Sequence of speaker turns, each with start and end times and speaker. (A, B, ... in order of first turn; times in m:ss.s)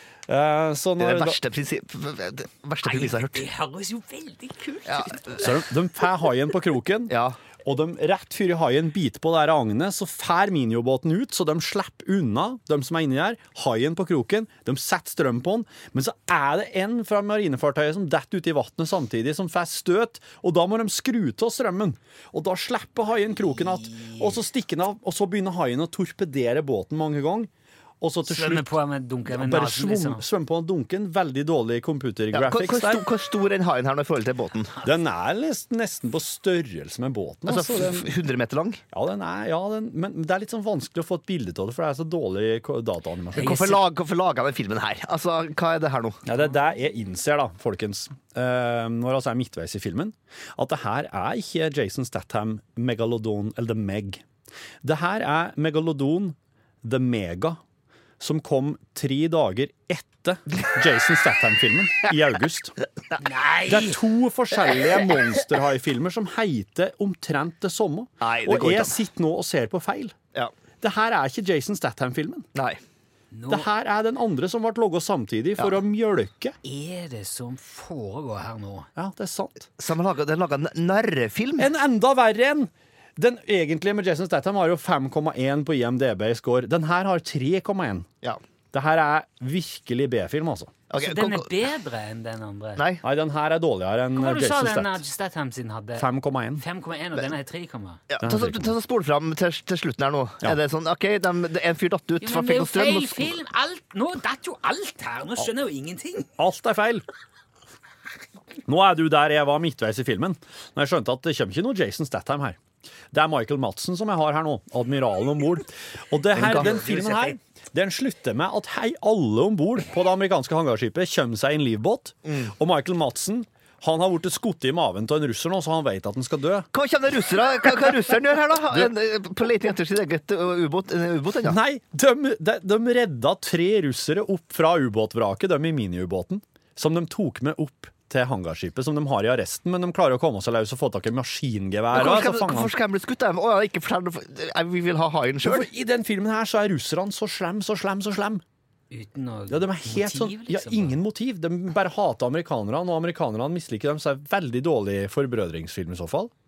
0:00.3-0:01.4 A
0:01.0-0:03.5 B
0:02.8-0:05.5 C
0:04.9-0:05.6 B
0:05.4-0:27.5 A
0:07.1-0:07.4 B
0:23.9-0:24.3 C
0:28.0-0:28.7 A
0:28.3-0:30.2 C
0:29.3-0:33.1 A
0:32.3-0:34.8 B
0:34.8-0:38.1 A
0:37.5-0:38.8 B
0:38.9-0:43.8 A
0:43.4-0:43.8 C
0:43.4-0:46.2 B
0:46.2-0:54.2 A
0:54.8-0:57.6 A
0:58.2-1:02.8 A
1:03.2-1:04.0 C
1:03.7-1:10.2 A
1:08.2-1:09.0 B
1:10.8-1:12.5 A
1:12.6-1:12.8 B
1:13.3-1:13.7 C
1:13.5-1:16.6 A
1:16.6-1:18.9 C
1:19.0-1:19.7 A
1:19.8-1:21.7 B
1:21.6-1:28.1 A
1:28.7-1:30.7 A
1:30.9-1:31.7 B
1:31.0-1:32.8 C
1:32.8-1:33.0 B
1:33.0-1:35.0 A
1:34.2-1:36.1 C
1:36.0-1:36.6 A
1:36.6-1:38.0 C
1:38.1-1:43.4 B
1:38.2-1:38.8 A
1:42.2-1:46.3 C
1:46.4-1:47.0 A
1:48.7-1:52.6 A
1:53.1-2:06.7 A
1:56.3-1:57.4 B
2:02.3-2:02.5 B
2:06.7-2:11.6 B
2:11.4-2:22.7 A
2:21.9-2:25.7 B
2:25.4-2:28.4 A
2:28.9-2:31.0 C
2:29.5-2:36.3 A